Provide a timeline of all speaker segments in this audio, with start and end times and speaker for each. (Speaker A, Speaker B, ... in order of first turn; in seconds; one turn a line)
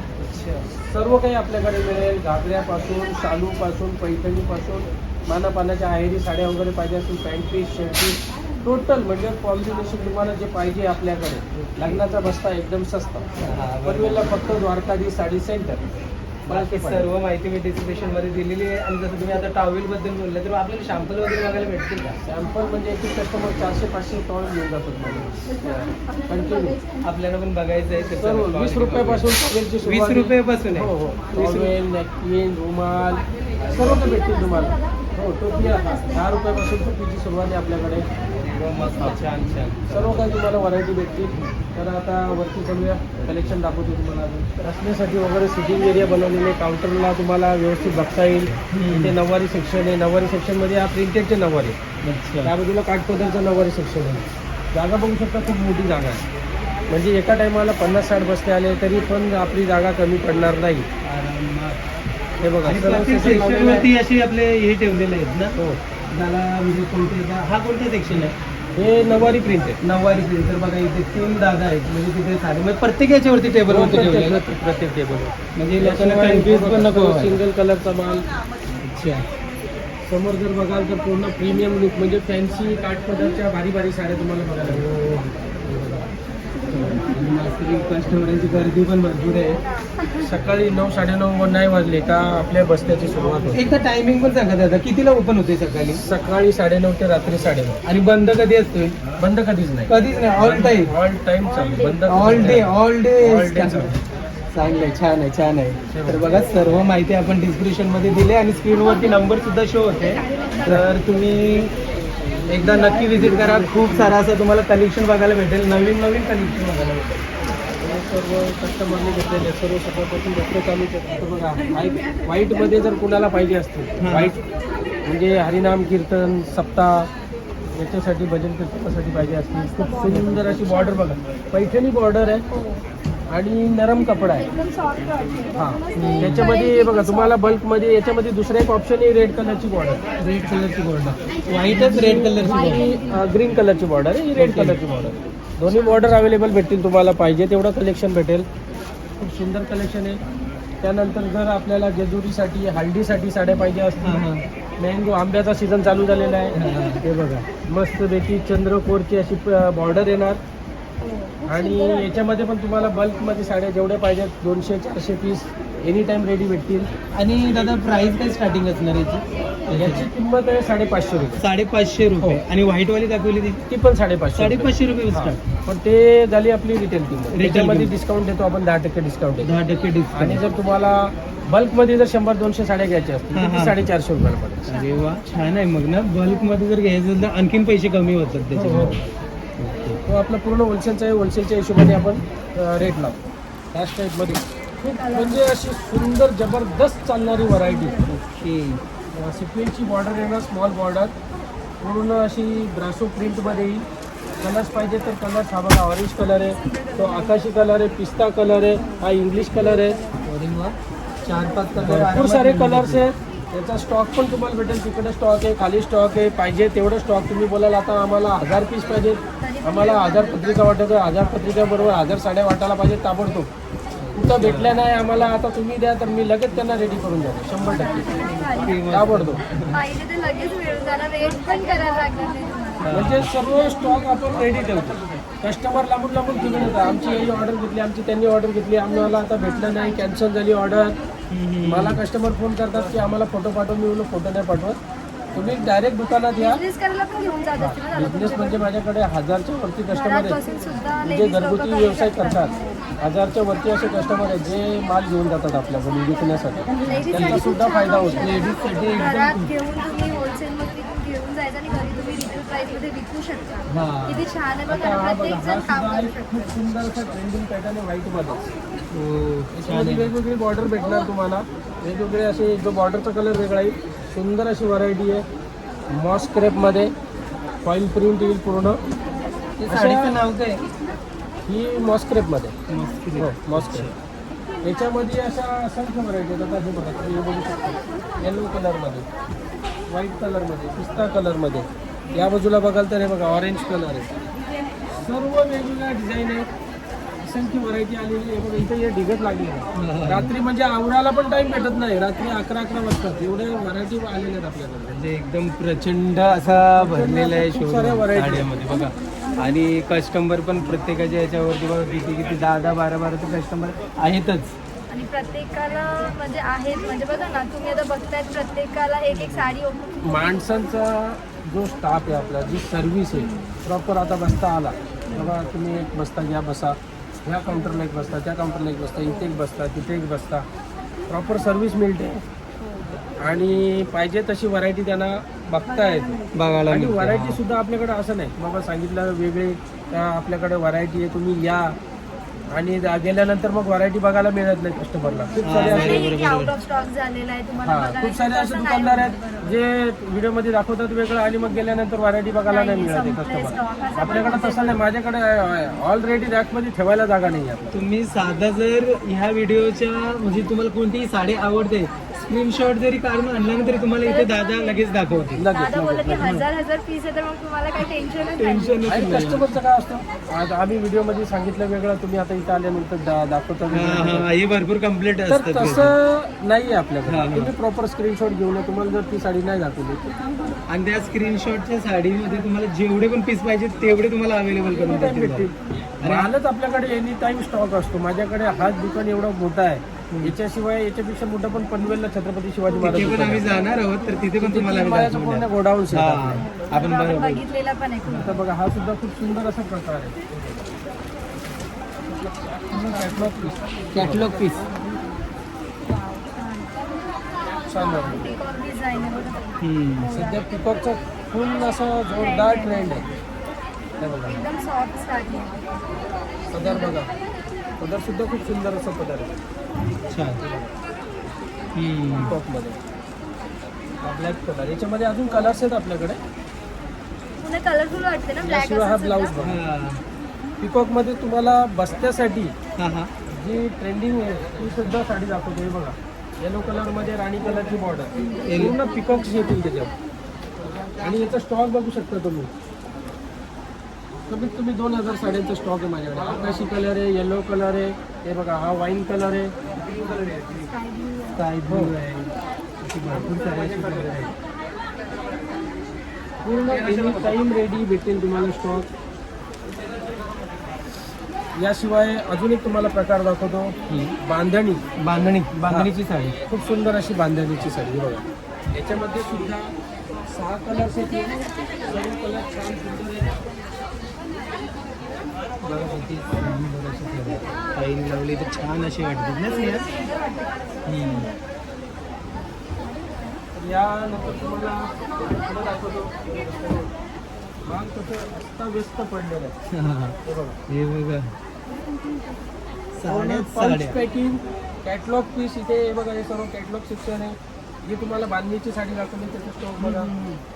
Speaker A: 0.2-0.7
Speaker B: 0.8-13.3
Speaker A: 11.5-12.0
Speaker A: 13.4-14.4
Speaker B: 13.8-15.8
Speaker B: 16.4-17.1
Speaker A: 16.5-22.2
Speaker B: 22.2-26.8
Speaker A: 25.1-25.4
Speaker C: 26.1-27.1
Speaker A: 27.0-29.3
Speaker B: 28.2-38.0
Speaker A: 29.8-31.8
Speaker A: 33.6-34.1
Speaker C: 33.9-36.8
Speaker A: 38.4-40.4
Speaker C: 38.8-39.2
Speaker B: 39.9-51.8
Speaker A: 43.2-43.6
Speaker A: 48.7-49.1
Speaker A: 52.0-52.5
Speaker B: 52.4-56.2
Speaker B: 56.9-60.9
Speaker A: 61.0-61.8
Speaker B: 62.4-63.9
Speaker A: 62.6-65.6
Speaker B: 65.5-65.8
Speaker A: 66.1-68.3
Speaker B: 68.8-69.8
Speaker A: 69.8-74.4
Speaker B: 73.7-78.3
Speaker A: 75.5-77.4
Speaker A: 78.8-79.2
Speaker B: 80.0-84.9
Speaker A: 84.6-86.0
Speaker A: 86.7-89.6
Speaker B: 90.2-93.7
Speaker A: 93.5-96.0
Speaker B: 95.9-97.8
Speaker A: 97.8-99.1
Speaker B: 99.2-104.0
Speaker A: 99.9-100.9
Speaker C: 101.5-102.2
Speaker A: 102.0-104.0
Speaker A: 104.5-111.7
Speaker B: 105.9-106.8
Speaker C: 110.0-110.8
Speaker A: 112.5-117.2
Speaker B: 112.5-114.2
Speaker B: 117.6-124.4
Speaker A: 124.0-124.3
Speaker B: 125.0-127.1
Speaker B: 127.7-132.4
Speaker C: 129.5-131.1
Speaker A: 130.1-130.4
Speaker C: 132.5-132.8
Speaker B: 133.3-134.5
Speaker C: 134.4-137.5
Speaker B: 135.5-140.0
Speaker A: 135.9-136.5
Speaker A: 140.2-142.9
Speaker B: 141.7-148.5
Speaker C: 141.8-143.3
Speaker A: 144.3-144.8
Speaker C: 145.7-146.1
Speaker B: 149.2-150.2
Speaker B: 150.8-154.2
Speaker A: 154.0-154.4
Speaker B: 154.8-160.4
Speaker A: 156.5-157.0
Speaker C: 161.0-162.2
Speaker B: 161.5-166.9
Speaker A: 167.1-170.1
Speaker B: 169.7-171.4
Speaker A: 171.4-173.6
Speaker B: 173.7-179.5
Speaker A: 174.3-175.4
Speaker A: 177.3-177.9
Speaker A: 179.4-180.4
Speaker B: 180.1-184.7
Speaker A: 183.3-183.8
Speaker A: 184.7-189.0
Speaker C: 184.7-185.1
Speaker B: 188.5-188.9
Speaker A: 189.6-190.0
Speaker B: 190.1-193.2
Speaker B: 193.7-194.4
Speaker C: 194.8-195.5
Speaker B: 195.1-197.9
Speaker C: 197.7-198.1
Speaker A: 198.1-198.8
Speaker B: 199.1-201.1
Speaker B: 201.8-203.8
Speaker B: 204.4-210.0
Speaker C: 206.7-207.3
Speaker C: 208.8-210.2
Speaker A: 210.2-213.1
Speaker B: 211.8-223.5
Speaker C: 219.4-220.6
Speaker A: 224.0-224.8
Speaker B: 224.1-229.4
Speaker C: 227.6-229.0
Speaker A: 227.6-229.8
Speaker C: 229.7-233.2
Speaker A: 232.8-233.3
Speaker B: 232.9-241.0
Speaker C: 239.0-240.1
Speaker A: 241.3-242.0
Speaker B: 241.6-244.8
Speaker B: 245.3-246.6
Speaker C: 246.4-248.6
Speaker B: 247.5-250.4
Speaker C: 249.9-252.8
Speaker B: 251.0-258.4
Speaker C: 256.8-266.7
Speaker A: 257.1-257.4
Speaker A: 258.2-259.5
Speaker A: 263.7-264.3
Speaker B: 264.7-268.5
Speaker A: 268.9-270.1
Speaker B: 269.5-275.2
Speaker B: 275.9-276.9
Speaker B: 277.6-278.8
Speaker A: 279.6-280.6
Speaker B: 279.7-280.1
Speaker B: 281.5-282.6
Speaker A: 282.7-283.9
Speaker B: 283.2-283.9
Speaker B: 284.6-289.1
Speaker B: 289.9-294.1
Speaker B: 294.9-296.5
Speaker B: 297.2-305.1
Speaker A: 299.7-300.3
Speaker A: 304.9-314.5
Speaker B: 306.7-308.5
Speaker C: 314.9-320.0
Speaker B: 320.0-330.4
Speaker C: 323.1-323.5
Speaker B: 331.1-332.2
Speaker C: 332.6-332.9
Speaker B: 333.2-336.1
Speaker C: 335.8-336.4
Speaker A: 336.3-337.4
Speaker B: 336.7-341.7
Speaker B: 342.5-346.1
Speaker A: 345.4-346.5
Speaker C: 345.6-349.5
Speaker B: 347.6-357.8
Speaker C: 352.5-354.8
Speaker A: 357.7-365.4
Speaker C: 363.8-364.9
Speaker B: 365.4-366.4
Speaker C: 365.5-368.8
Speaker A: 368.4-369.5
Speaker B: 368.9-374.3
Speaker A: 373.7-375.9
Speaker B: 375.3-380.1
Speaker A: 377.1-377.5
Speaker A: 380.7-386.3
Speaker B: 384.8-393.5
Speaker A: 390.1-390.4
Speaker A: 392.7-397.4
Speaker B: 394.4-396.5
Speaker C: 396.6-398.4
Speaker B: 398.1-400.2
Speaker B: 402.1-404.5
Speaker A: 403.9-404.6
Speaker C: 405.9-407.0
Speaker B: 407.6-408.4
Speaker C: 407.8-410.4
Speaker A: 409.6-410.1
Speaker B: 410.1-413.0
Speaker C: 412.1-413.1
Speaker B: 414.0-414.4
Speaker C: 414.2-415.6
Speaker B: 416.5-417.1
Speaker C: 416.6-416.9
Speaker B: 417.8-419.4
Speaker A: 420.1-420.4
Speaker B: 420.4-420.7
Speaker A: 421.7-422.4
Speaker B: 422.2-422.8
Speaker B: 424.0-426.2
Speaker C: 427.4-429.3
Speaker B: 428.4-429.6
Speaker A: 429.4-430.0
Speaker B: 430.6-432.5
Speaker A: 432.8-433.1
Speaker B: 433.3-439.9
Speaker C: 438.2-438.7
Speaker A: 438.4-438.8
Speaker B: 441.0-442.5
Speaker B: 444.3-449.5
Speaker A: 449.7-450.7
Speaker C: 450.6-451.4
Speaker A: 451.3-454.3
Speaker B: 451.7-451.9
Speaker B: 453.0-454.3
Speaker B: 456.4-458.9
Speaker A: 456.6-457.4
Speaker B: 461.6-464.8
Speaker A: 463.9-464.1
Speaker A: 465.0-466.4
Speaker B: 465.6-465.9
Speaker B: 466.5-469.7
Speaker B: 470.3-473.4
Speaker A: 475.6-479.9
Speaker C: 479.4-481.3
Speaker A: 480.9-481.3
Speaker B: 483.5-486.9
Speaker B: 487.6-489.6
Speaker A: 489.7-490.1
Speaker B: 490.2-490.6
Speaker A: 490.7-491.3
Speaker A: 493.0-494.0
Speaker B: 493.0-500.1
Speaker A: 499.8-500.4